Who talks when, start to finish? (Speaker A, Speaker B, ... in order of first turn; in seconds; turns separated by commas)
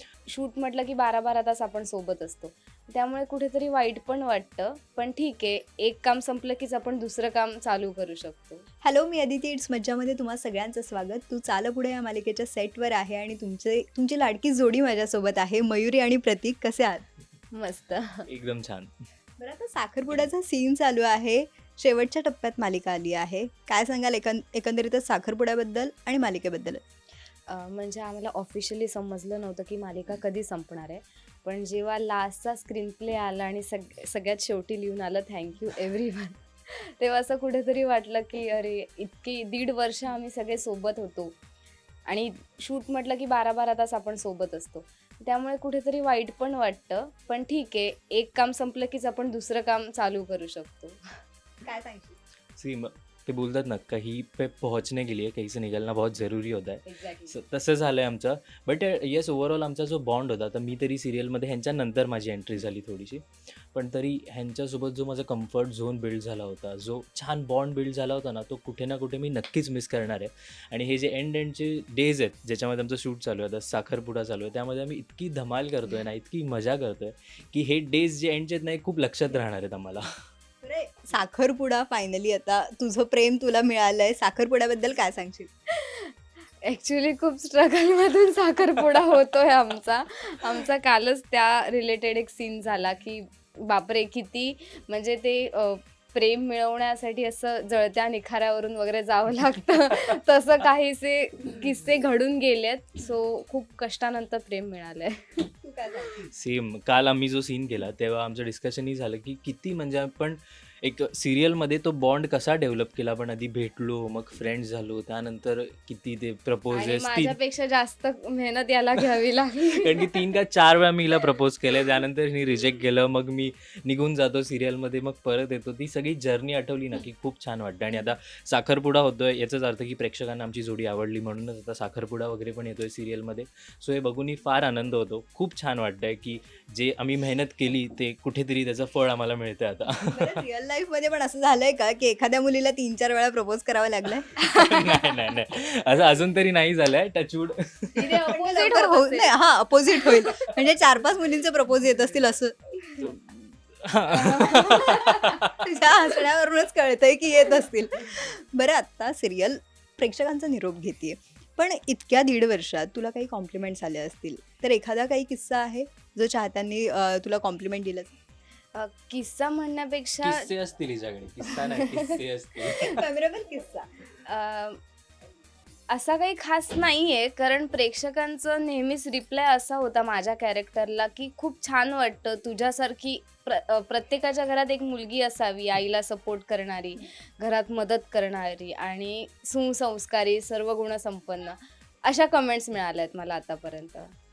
Speaker A: 0.3-8.6, Speaker B: 8.8-17.0, Speaker A: 17.5-18.3, Speaker C: 18.3-18.9, Speaker B: 19.4-26.8, Speaker A: 27.5-36.4, Speaker A: 37.0-41.4, Speaker A: 42.1-51.0, Speaker B: 51.6-52.2, Speaker C: 52.6-80.0, Speaker A: 56.9-57.4, Speaker B: 80.6-85.5, Speaker A: 85.7-86.1, Speaker A: 86.6-105.3, Speaker B: 105.6-106.2, Speaker C: 106.3-117.4, Speaker A: 116.7-119.9, Speaker C: 119.8-140.4, Speaker B: 140.0-144.3, Speaker C: 144.4-148.3, Speaker A: 144.5-144.8, Speaker A: 147.9-149.4, Speaker B: 148.0-152.6, Speaker C: 153.0-155.7, Speaker B: 154.2-168.1, Speaker A: 168.8-170.5, Speaker C: 170.2-172.9, Speaker B: 172.8-173.8, Speaker A: 174.2-174.8, Speaker A: 175.9-194.1